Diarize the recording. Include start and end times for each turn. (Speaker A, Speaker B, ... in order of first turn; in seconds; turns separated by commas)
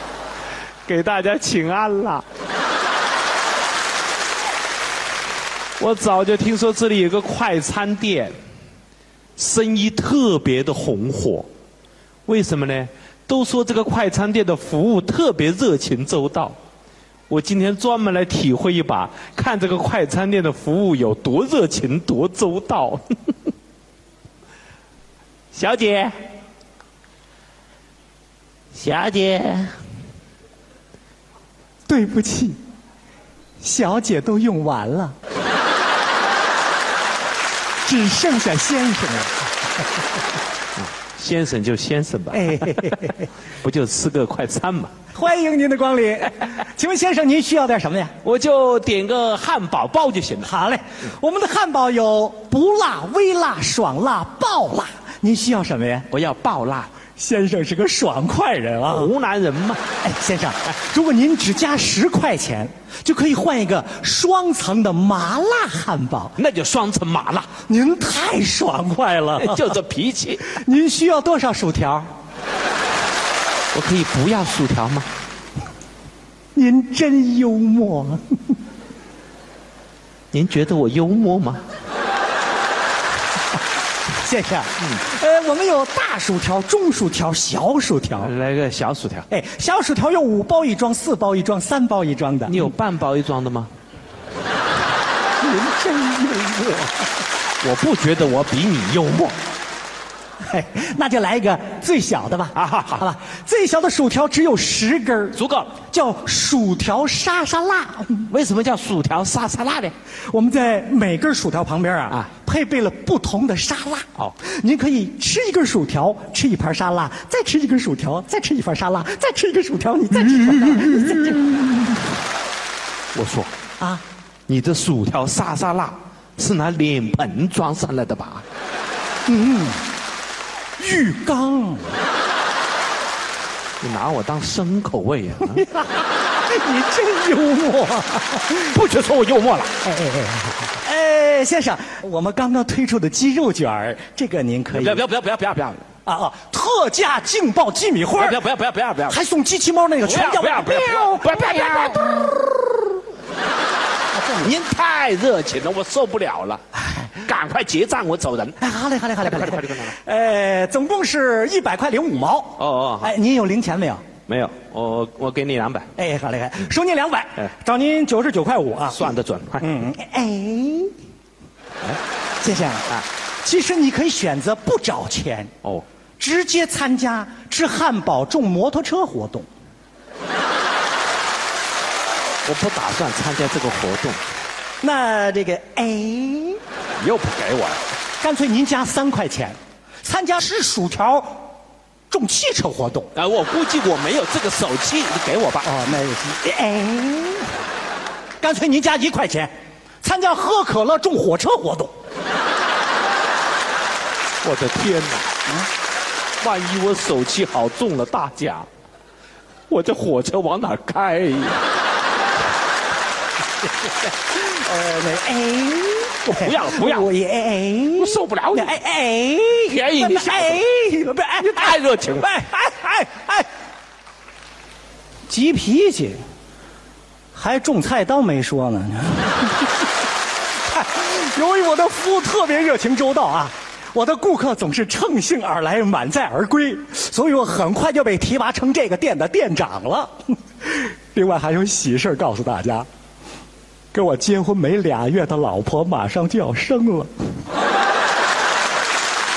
Speaker A: 0.8-2.2, Speaker A: 5.8-8.3, Speaker A: 9.3-11.5, Speaker A: 12.3-16.6, Speaker A: 17.3-23.0, Speaker A: 25.5-26.1, Speaker A: 28.7-29.7, Speaker B: 31.9-32.6, Speaker B: 33.6-35.1, Speaker B: 37.8-39.5, Speaker A: 40.8-44.9, Speaker B: 42.3-43.3, Speaker B: 45.1-48.1, Speaker A: 48.2-50.5, Speaker B: 50.4-56.1, Speaker A: 56.1-56.9, Speaker B: 57.2-59.1, Speaker A: 58.9-59.8, Speaker B: 60.0-66.3, Speaker A: 66.4-67.5, Speaker B: 67.7-69.8, Speaker A: 69.3-70.5, Speaker B: 70.5-72.1, Speaker A: 73.7-75.1, Speaker B: 76.5-78.4, Speaker A: 80.3-81.6, Speaker B: 84.2-88.3, Speaker A: 88.2-89.3, Speaker B: 89.3-92.7, Speaker A: 92.5-93.7, Speaker B: 95.4-97.1, Speaker A: 97.6-99.3, Speaker B: 100.5-108.3, Speaker A: 102.5-103.0, Speaker A: 105.3-105.8, Speaker A: 108.3-109.9, Speaker B: 110.3-121.7, Speaker A: 120.3-121.4, Speaker A: 123.1-123.5, Speaker B: 123.8-124.0, Speaker A: 124.5-128.4, Speaker B: 129.2-129.9, Speaker B: 130.8-132.0, Speaker A: 133.8-135.7, Speaker B: 136.4-138.8, Speaker A: 138.7-139.7, Speaker B: 139.8-145.1, Speaker A: 144.7-145.8, Speaker B: 146.1-148.4, Speaker A: 148.2-149.2, Speaker B: 149.1-152.3, Speaker A: 150.0-152.4, Speaker B: 154.1-154.5, Speaker A: 154.4-158.6, Speaker B: 158.6-164.0, Speaker A: 159.2-159.9, Speaker A: 162.6-163.1, Speaker A: 164.3-165.9, Speaker B: 166.0-170.9, Speaker A: 168.9-169.8, Speaker B: 172.4-175.5, Speaker B: 176.2-179.5, Speaker A: 182.4-184.2, Speaker B: 184.8-186.6, Speaker A: 187.0-187.8, Speaker B: 188.2-191.5, Speaker B: 192.1-193.1, Speaker A: 193.1-195.7, Speaker B: 195.6-197.6, Speaker B: 198.4-199.5, Speaker B: 200.0-201.9, Speaker A: 204.4-205.3, Speaker A: 206.4-208.7, Speaker A: 209.7-211.6, Speaker B: 214.3-223.5, Speaker A: 216.2-217.1, Speaker A: 217.9-218.8, Speaker A: 219.6-220.6, Speaker A: 221.4-222.4, Speaker B: 225.3-226.2, Speaker B: 227.3-229.9, Speaker B: 230.7-242.9, Speaker B: 243.9-247.1